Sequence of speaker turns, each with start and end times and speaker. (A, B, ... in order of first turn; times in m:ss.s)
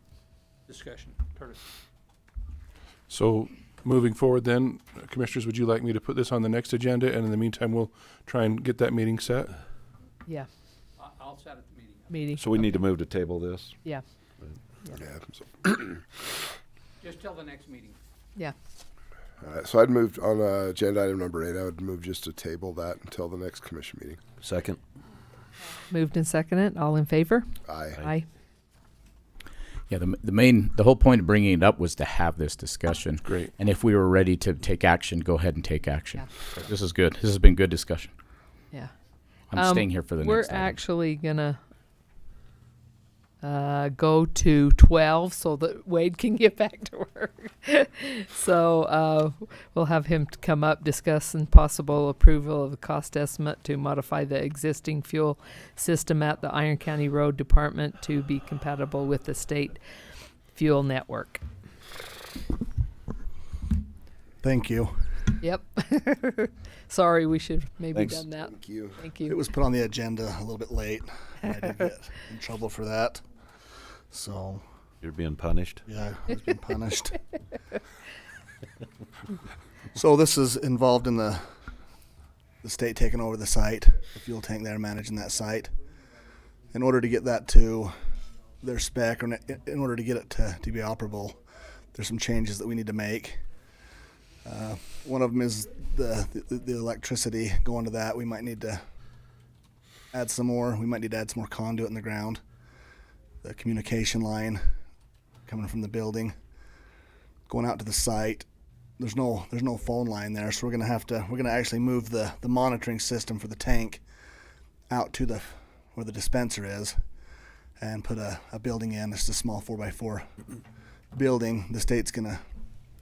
0:00.7-0:01.6 A
0:03.1-0:09.5 B
0:11.0-0:12.2 A
0:12.1-0:12.6 C
0:12.4-0:13.8 D
0:14.9-0:16.0 E
0:17.0-0:18.0 A
0:19.4-0:24.2 E
0:24.4-0:24.8 D
0:25.9-0:28.3 C
0:27.7-0:28.1 E
0:29.9-0:38.1 F
0:33.2-0:33.5 B
0:39.5-0:40.8 F
0:39.5-0:41.6 C
0:43.4-0:59.8 C
1:00.5-1:01.4 C
1:04.4-1:05.4 G
1:05.4-1:09.4 C
1:07.9-1:08.3 D
1:08.3-1:09.1 E
1:09.2-1:13.2 G
1:14.1-1:14.6 G
1:15.0-1:15.8 D
1:15.9-1:17.2 G
1:19.9-1:21.4 G
1:22.6-1:25.7 G
1:26.7-1:27.9 G
1:28.6-1:31.4 G
1:31.9-1:33.4 G
1:34.4-1:38.8 G
1:40.1-1:42.4 G
1:43.4-1:44.6 G
1:45.5-1:46.3 G
1:47.5-1:48.5 G
1:49.0-1:54.0 G
1:54.9-1:57.0 G
1:57.8-2:00.3 G
2:01.1-2:02.4 G